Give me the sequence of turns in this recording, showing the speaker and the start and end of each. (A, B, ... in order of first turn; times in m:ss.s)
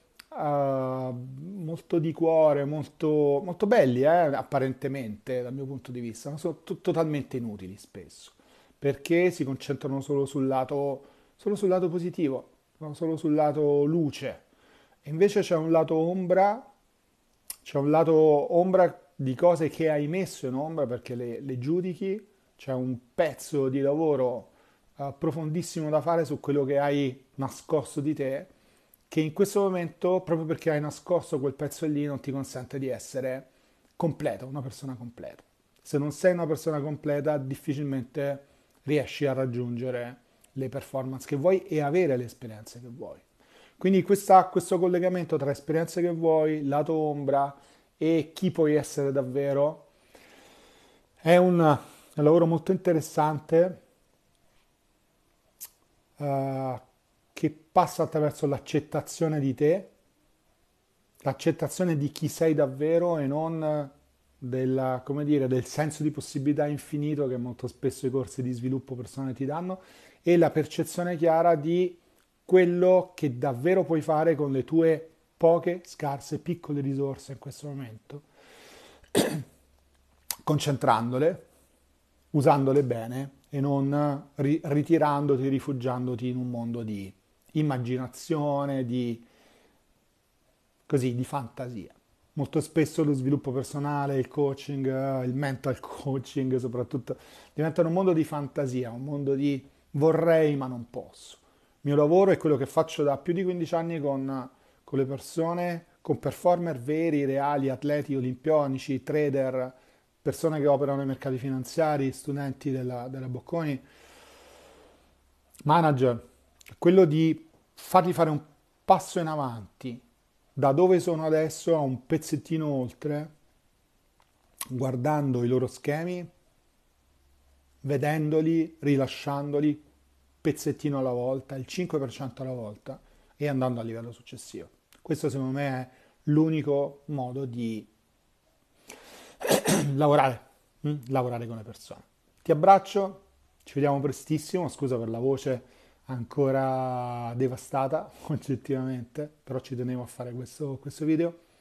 0:00.3-0:14.4 A
0:15.0-0:16.7 A
0:17.6-0:28.5 A
0:29.1-0:43.2 A
0:43.8-0:49.9 A
0:51.2-0:53.8 A
0:56.2-0:56.8 A
0:57.3-0:59.9 A
1:01.2-1:18.2 A
1:19.1-1:19.4 A
1:20.4-1:21.5 A
1:22.3-1:29.2 A
1:30.9-1:53.8 A
1:55.6-2:00.0 A
2:00.6-2:03.3 A
2:04.7-2:06.3 A
2:07.8-2:09.8 A
2:10.4-2:17.9 A
2:19.4-2:31.4 A